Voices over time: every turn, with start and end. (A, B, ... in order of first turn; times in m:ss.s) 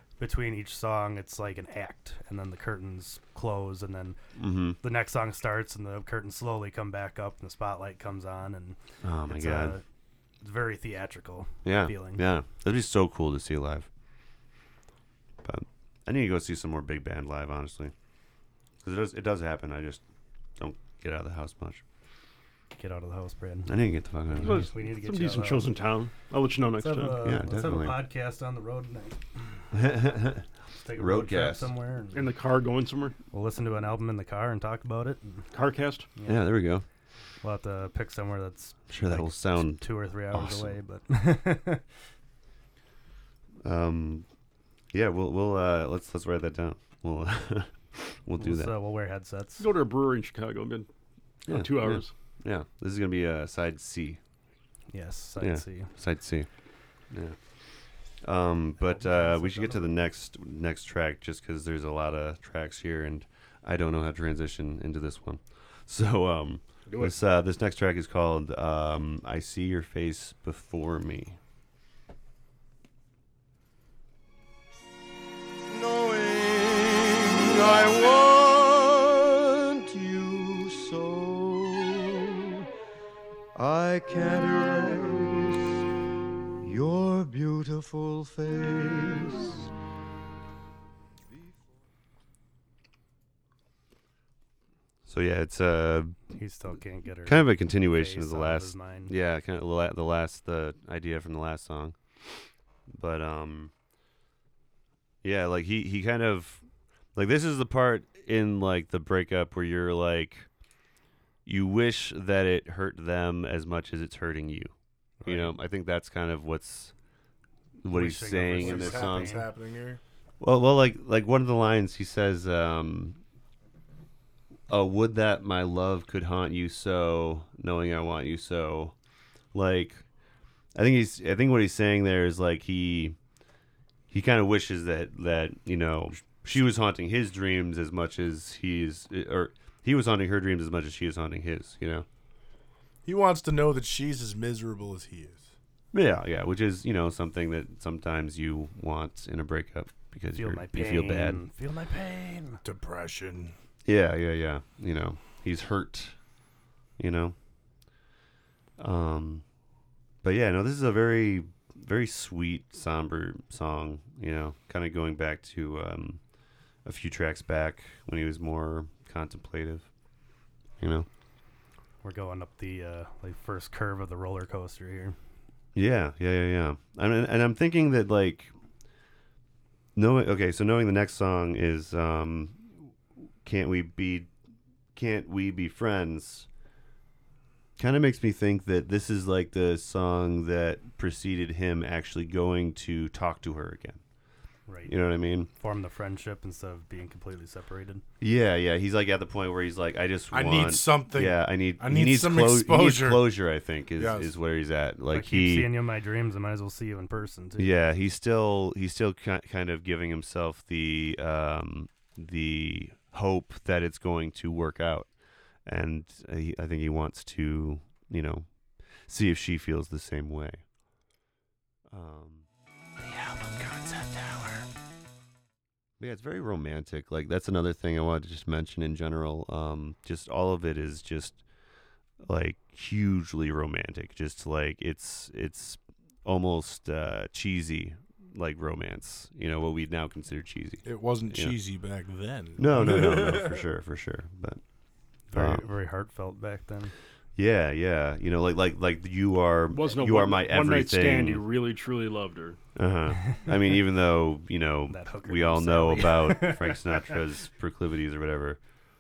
0:00.2-0:04.2 A
0:04.4-0:04.8 B
0:04.8-0:08.8 A
0:09.0-0:09.8 B
0:09.3-0:09.8 A
0:10.4-0:12.2 A
0:11.6-0:13.9 B
0:15.4-0:17.9 B
0:18.8-0:20.0 B
0:20.6-0:21.8 B
0:22.8-0:23.7 A
0:23.7-0:24.7 B
0:24.3-0:25.7 A
0:24.4-0:27.3 C
0:26.8-0:29.7 A
0:27.2-0:28.0 B
0:29.7-0:31.7 B
0:30.8-0:32.3 A
0:32.1-0:33.2 C
0:33.3-0:35.5 A
0:35.5-0:36.1 C
0:36.2-0:36.5 A
0:36.3-0:36.8 B
0:37.4-0:41.9 A
0:38.9-0:40.8 B
0:43.6-0:44.3 B
0:44.9-0:48.7 B
0:48.4-0:49.7 A
0:49.6-0:50.9 C
0:51.5-0:52.1 C
0:51.5-0:54.2 B
0:54.9-0:55.9 A
0:55.4-0:56.5 B
0:57.1-0:57.4 B
0:58.2-1:11.4 B
0:58.8-0:59.9 A
1:06.9-1:07.1 C
1:15.7-1:22.2 D
1:23.6-1:25.7 D
1:26.6-1:29.7 D
1:35.1-1:36.2 B
1:36.3-1:39.1 A
1:37.2-1:42.0 B
1:42.9-1:43.7 B
1:45.2-1:46.6 B
1:47.2-1:50.5 B
1:51.5-1:54.7 B
1:55.2-1:55.5 A
1:55.2-1:56.9 B
1:57.8-1:59.4 B
1:57.9-1:59.5 A
1:58.6-2:00.0 E
2:00.4-2:03.2 B
2:04.7-2:08.9 B
2:09.5-2:10.0 B
2:10.8-2:13.2 B
2:14.1-2:22.1 B
2:23.0-2:25.5 E
2:25.9-2:31.4 B
2:30.4-2:32.6 A
2:32.6-2:33.6 E
2:33.9-2:36.2 B
2:37.0-2:37.4 B
2:38.8-2:39.4 B
2:40.2-2:46.2 B
2:46.8-2:49.9 B
2:50.8-2:51.1 B
2:52.0-2:55.2 A
2:55.8-2:58.5 B
3:00.0-3:02.9 B
3:03.4-3:04.3 B
3:05.0-3:06.5 B
3:07.8-3:14.0 B
3:14.7-3:14.9 A
3:14.9-3:15.5 B
3:15.5-3:18.0 A
3:18.2-3:25.7 B
3:20.3-3:23.2 E
3:24.0-3:24.3 E
3:25.1-3:27.7 A
3:27.6-3:35.1 B
3:35.7-3:38.5 B
3:39.1-3:40.6 B
3:41.9-3:42.5 B
3:43.0-3:44.7 A
3:46.0-3:51.4 B
3:52.2-4:01.6 B
4:00.8-4:03.7 E
4:02.6-4:04.6 B
4:05.3-4:06.9 A
4:05.3-4:05.7 B
4:07.4-4:11.4 B
4:09.7-4:12.6 C
4:12.8-4:18.6 B
4:14.9-4:17.2 A